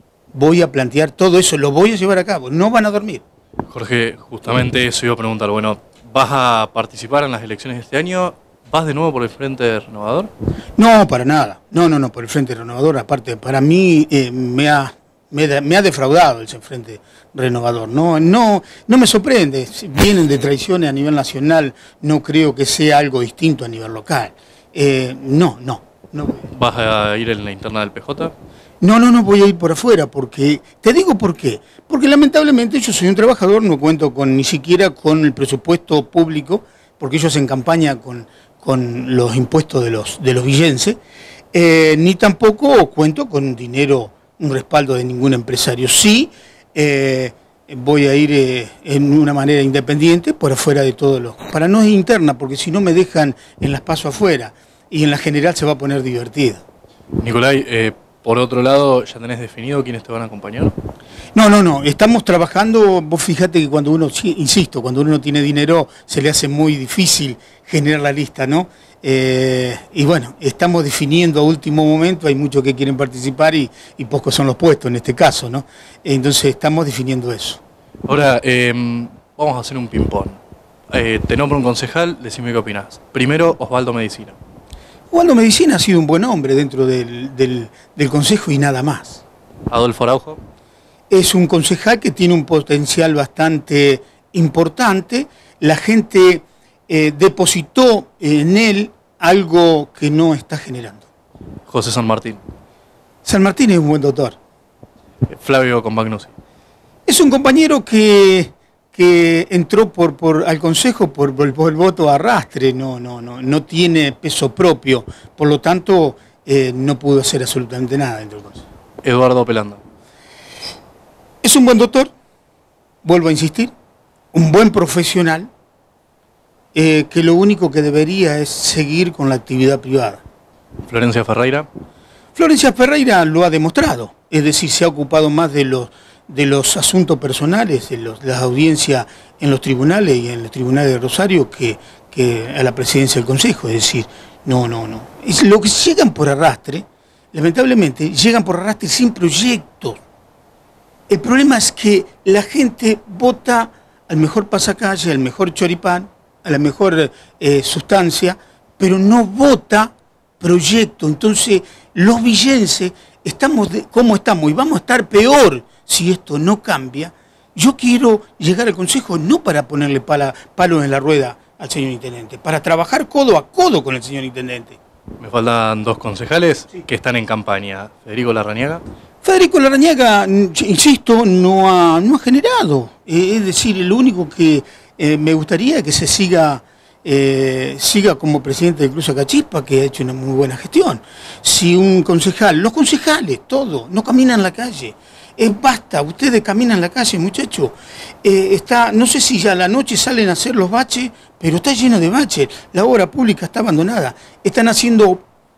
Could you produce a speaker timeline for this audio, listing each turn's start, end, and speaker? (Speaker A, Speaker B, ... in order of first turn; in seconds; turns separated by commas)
Speaker A: 0.3-3.2, Speaker B: 3.7-10.3, Speaker A: 10.8-26.5, Speaker B: 26.5-28.3, Speaker A: 28.8-41.0, Speaker A: 41.5-56.6, Speaker B: 57.2-60.7, Speaker A: 61.3-77.6, Speaker B: 78.1-80.4, Speaker B: 80.9-84.4, Speaker A: 85.1-89.2, Speaker B: 89.7-90.4, Speaker A: 91.1-101.0, Speaker B: 101.7-102.4, Speaker A: 103.2-104.3, Speaker B: 105.3-106.3, Speaker A: 107.1-118.6, Speaker B: 119.0-119.8, Speaker A: 121.4-122.1, Speaker A: 123.0-123.7, Speaker A: 124.3-125.5, Speaker A: 126.7-130.2, Speaker B: 130.8-131.7, Speaker A: 132.3-150.0, Speaker A: 151.1-174.8, Speaker B: 175.2-178.8, Speaker A: 179.2-205.2